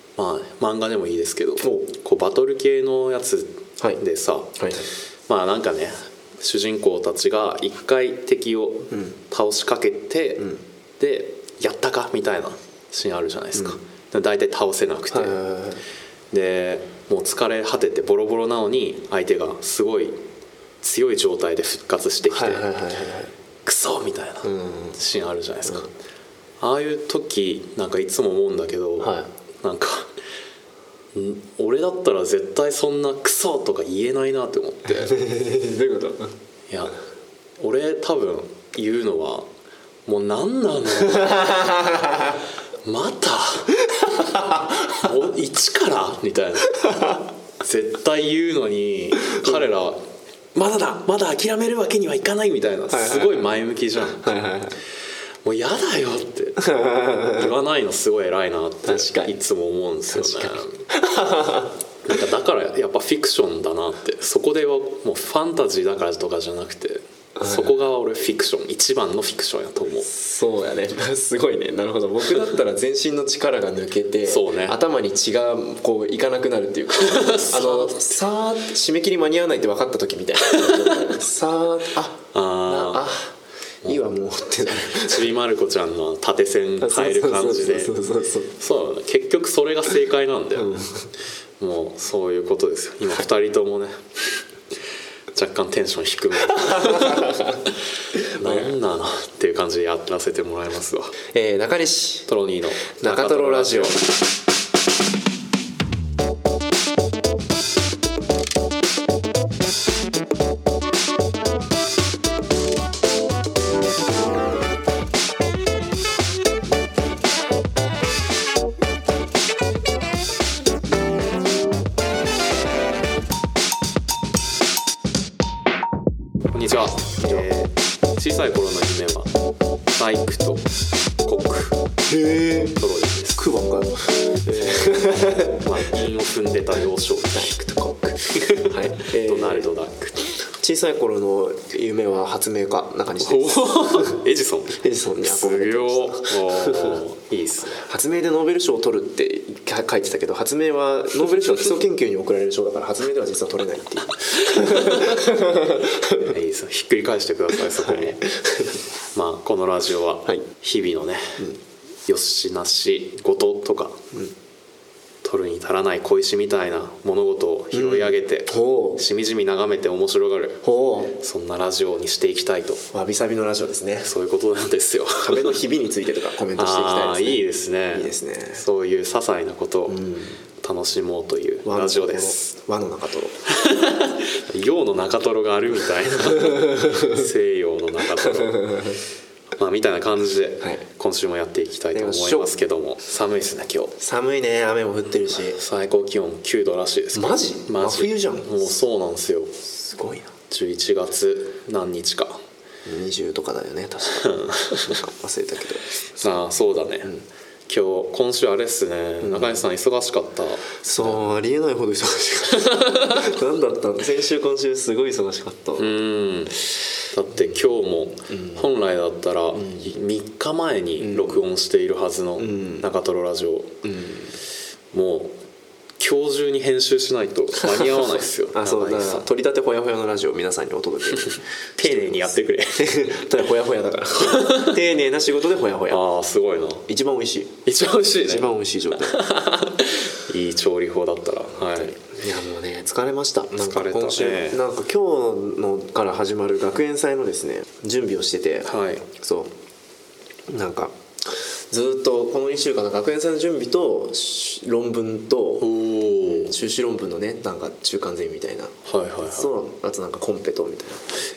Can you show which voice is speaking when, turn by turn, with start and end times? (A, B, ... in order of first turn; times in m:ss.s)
0:00.2-0:04.6 A
0:01.6-0:01.9 B
0:04.6-0:04.9 B
0:05.3-0:10.5 A
0:08.9-0:09.2 B
0:11.0-0:15.4 A
0:15.1-0:15.8 B
0:16.3-0:20.2 A
0:20.8-0:22.7 A
0:22.3-0:23.3 B
0:23.6-0:25.9 A
0:24.4-0:25.0 B
0:26.6-0:30.1 A
0:29.0-0:29.3 B
0:31.1-0:35.1 A
0:34.9-0:36.3 B
0:36.7-0:37.0 A
0:37.6-0:39.5 A
0:40.1-0:41.6 A
0:40.9-0:42.4 B
0:42.8-0:43.8 A
0:43.9-0:45.1 B
0:44.8-0:46.9 A
0:46.7-0:47.2 B
0:47.6-0:54.4 A
0:49.2-0:49.6 B
0:52.9-0:53.5 B
0:54.2-0:54.8 B
0:55.4-1:00.8 A
0:56.6-0:57.5 B
0:58.8-0:59.4 B
1:00.1-1:01.7 B
1:02.0-1:10.1 A
1:07.4-1:07.7 B
1:10.0-1:25.3 B
1:14.3-1:14.8 A
1:16.9-1:18.0 A
1:20.4-1:21.1 A
1:22.3-1:23.1 A
1:23.8-1:24.1 A
1:24.8-1:28.0 A
1:26.8-1:28.5 B
1:28.6-1:30.8 A
1:30.6-1:31.1 B
1:31.6-1:34.0 A
1:35.3-1:41.2 A
1:36.5-1:37.6 B
1:38.4-1:38.7 B
1:41.3-1:42.3 B
1:42.3-1:44.0 A
1:43.0-1:44.0 B
2:06.5-2:09.3 A
2:09.9-2:10.7 A
2:11.2-2:11.8 A
2:12.1-2:12.8 B
2:12.8-2:13.4 A
2:13.4-2:15.7 B
2:14.5-2:17.5 A
2:17.3-2:19.7 B
2:18.3-2:20.2 A
2:20.6-2:27.0 B
2:23.2-2:27.9 A
2:27.8-2:36.4 B
2:34.4-2:35.2 A
2:36.2-2:38.2 A
2:37.5-2:38.8 B
2:39.1-2:41.4 A
2:42.1-2:44.0 A
2:45.2-2:52.8 A
2:47.7-2:49.0 B
2:50.6-2:51.2 B
2:52.9-2:54.1 B
2:54.0-2:55.6 A
2:55.2-2:58.6 B
2:56.6-3:00.0 A
2:59.9-3:00.4 B
3:00.6-3:02.6 A
3:01.6-3:03.4 B
3:03.5-3:08.9 A
3:06.4-3:07.2 B
3:08.2-3:09.0 B
3:09.6-3:14.0 A
3:11.9-3:12.6 B
3:14.0-3:15.6 B
3:15.6-3:19.5 A
3:17.2-3:18.8 B
3:19.6-3:20.3 B
3:20.5-3:22.4 A
3:22.9-3:25.9 B
3:24.2-3:25.0 A
3:26.2-3:27.2 A
3:27.7-3:31.2 A
3:29.2-3:29.6 B
3:30.8-3:36.0 B
3:32.6-3:33.3 A
3:35.8-3:36.6 A
3:37.1-3:43.8 A
3:38.3-3:38.6 B
3:39.6-3:39.9 B
3:41.0-3:41.4 B
3:42.4-3:42.9 B
3:43.8-3:44.4 B
3:44.9-3:45.4 A
3:46.0-3:49.3 A
3:48.5-3:56.0 B
3:51.8-3:53.1 A
3:54.2-3:54.8 A
3:55.9-3:56.8 A
3:56.9-3:57.6 B
3:57.6-3:58.5 A
3:58.2-3:59.3 B
3:59.0-4:02.0 A
4:01.6-4:09.5 B
4:03.6-4:04.6 A
4:08.6-4:09.1 A
4:10.5-4:21.1 B
4:15.6-4:16.6 A
4:18.8-4:19.5 A